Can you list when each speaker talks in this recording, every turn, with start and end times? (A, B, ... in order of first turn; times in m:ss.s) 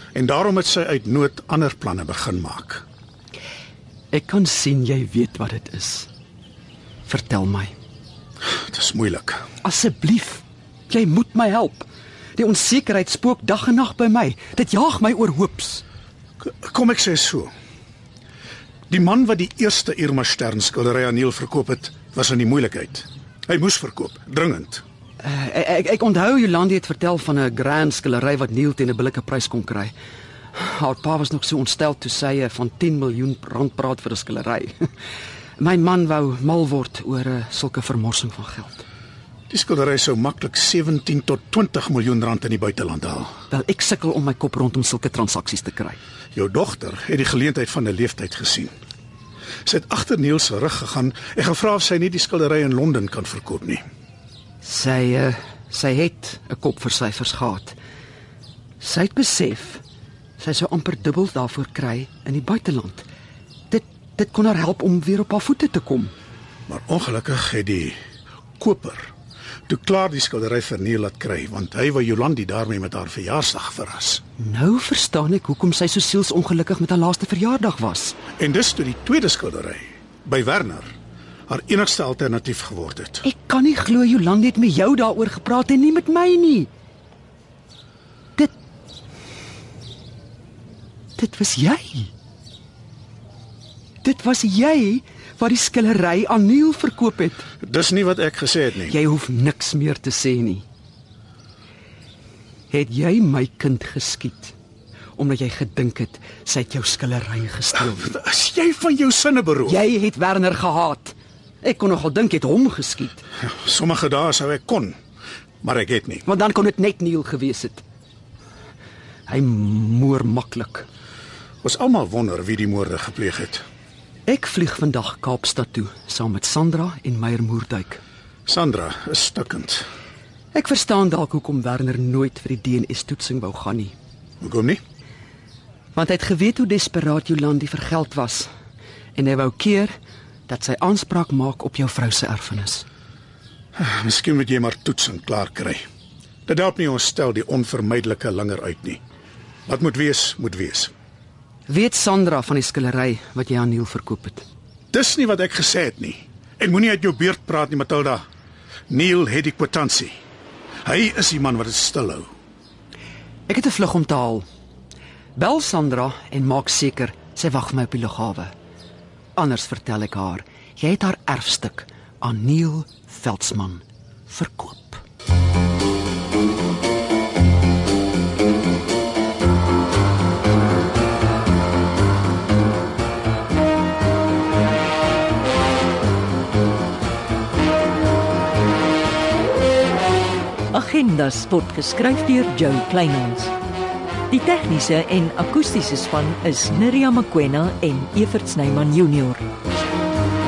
0:00.1-0:02.8 A
0:04.1-0:06.1 B
0:07.1-0:07.7 B
0:08.5-0:09.4 A
0:09.6-0:15.8 B
0:16.4-0:17.5 A
0:18.9-0:24.8 A
0:25.2-0:29.9 B
0:30.5-0:34.9 B
0:35.6-0:38.8 B
0:39.5-0:43.3 A
0:43.5-0:46.0 B
0:46.3-0:48.7 A
0:49.6-0:53.8 A
0:54.6-0:57.8 B
0:58.8-0:59.8 B
1:00.4-1:03.1 B
1:03.7-1:06.1 B
1:06.7-1:08.0 A
1:08.6-1:09.1 A
1:09.7-1:14.2 A
1:14.4-1:18.2 B
1:18.4-1:20.9 A
1:21.5-1:23.2 A
1:23.2-1:26.7 B
1:31.2-1:32.1 B
1:34.0-1:37.4 B
1:37.6-1:39.0 A
1:38.9-1:40.6 B
1:42.7-1:44.5 B
1:45.2-1:48.1 B
1:47.9-1:49.8 A
1:49.6-1:53.2 B
1:53.4-1:55.0 A
1:55.6-1:56.2 A
1:56.2-1:57.8 B
1:59.3-2:00.9 B
2:01.6-2:03.6 A
2:04.2-2:08.0 B
2:08.4-2:09.9 A
2:10.5-2:13.9 B
2:14.4-2:14.8 A
2:15.9-2:18.5 B
2:19.1-2:19.9 B
2:20.5-2:22.8 B
2:23.8-2:25.8 A
2:26.4-2:29.0 A
2:29.7-2:30.9 A
2:31.7-2:34.4 B
2:34.9-2:38.2 A
2:38.9-2:40.2 A
2:40.8-2:42.3 A
2:43.5-2:44.4 B
2:45.4-2:48.5 B
2:49.4-2:55.0 B
3:10.7-3:13.5 C
3:14.3-3:19.4 C